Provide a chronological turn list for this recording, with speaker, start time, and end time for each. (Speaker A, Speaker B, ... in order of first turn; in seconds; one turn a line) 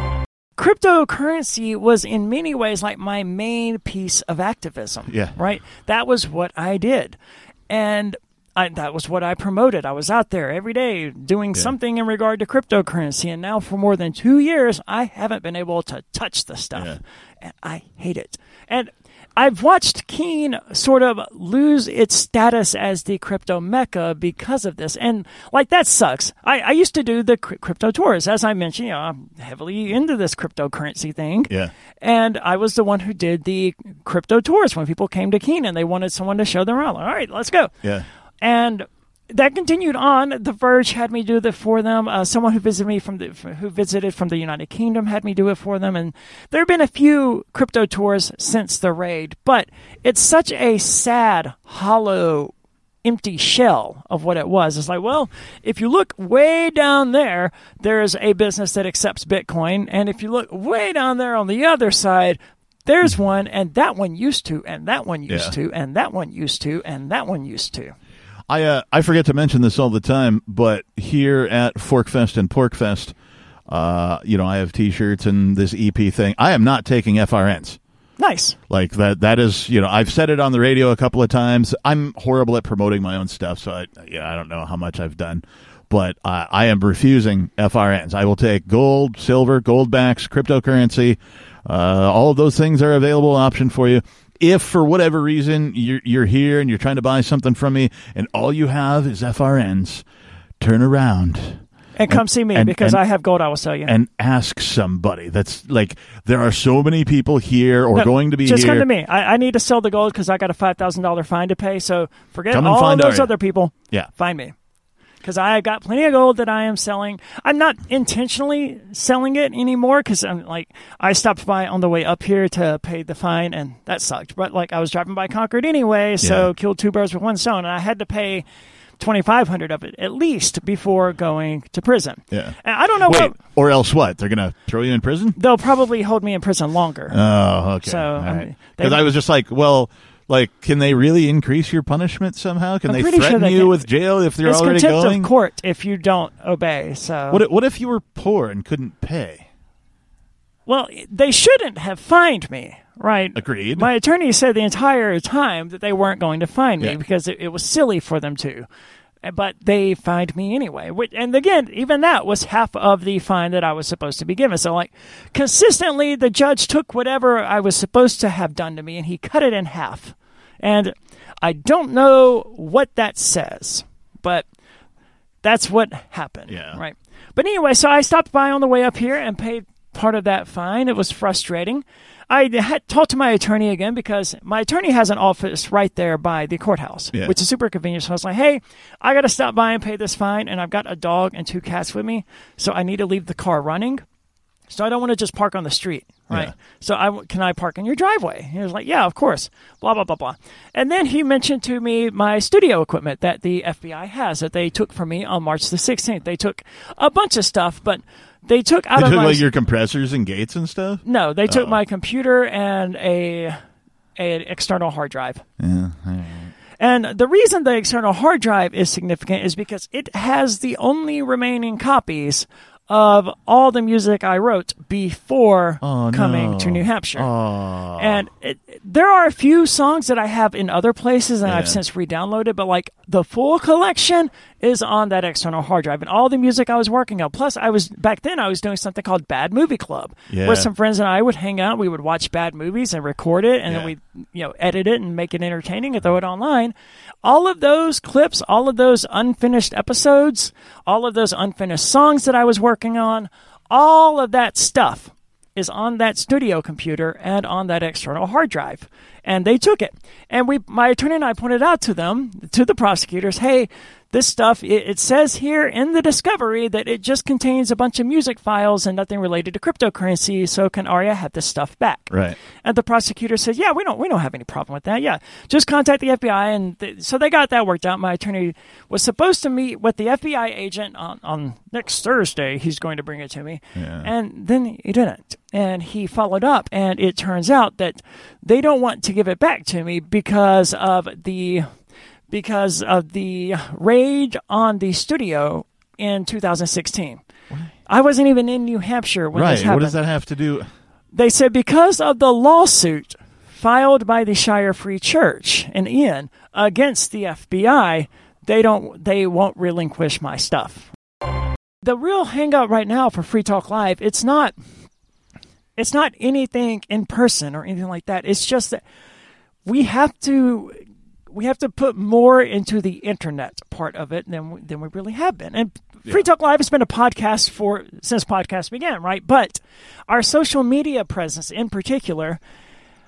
Speaker A: 0.6-7.2
Speaker B: 5.1-5.4
Speaker A: 7.7-37.7
Speaker A: 38.4-52.5
Speaker A: 53.0-67.9
Speaker B: 65.3-65.5
Speaker B: 68.5-73.1
Speaker B: 73.7-77.8
Speaker A: 78.2-78.5
Speaker B: 78.7-100.0
Speaker B: 100.6-103.0
Speaker A: 102.0-103.9
Speaker B: 103.8-108.8
Speaker A: 107.9-114.5
Speaker B: 112.5-113.3
Speaker A: 115.2-128.4
Speaker B: 126.2-126.5
Speaker A: 129.0-133.3
Speaker B: 132.3-135.4
Speaker A: 135.3-137.2
Speaker B: 137.1-145.3
Speaker A: 137.8-139.0
Speaker A: 142.9-143.8
Speaker A: 144.4-147.4
Speaker B: 147.3-149.5
Speaker A: 150.7-158.7
Speaker B: 153.3-153.9
Speaker A: 159.2-174.4
Speaker A: 175.4-194.0
Speaker B: 176.5-176.8
Speaker A: 194.7-209.4
Speaker B: 208.9-211.8
Speaker A: 211.0-213.6
Speaker A: 214.2-215.4
Speaker B: 215.6-216.5
Speaker A: 216.8-227.3
Speaker B: 225.8-228.2
Speaker A: 228.0-291.7
Speaker B: 231.4-231.8
Speaker B: 240.3-240.7
Speaker B: 272.1-272.4
Speaker B: 283.8-284.1
Speaker A: 292.3-297.2
Speaker A: 297.9-300.0
Speaker B: 299.3-300.7
Speaker A: 301.1-310.9
Speaker A: 311.8-314.5
Speaker A: 315.8-318.8
Speaker A: 319.6-332.4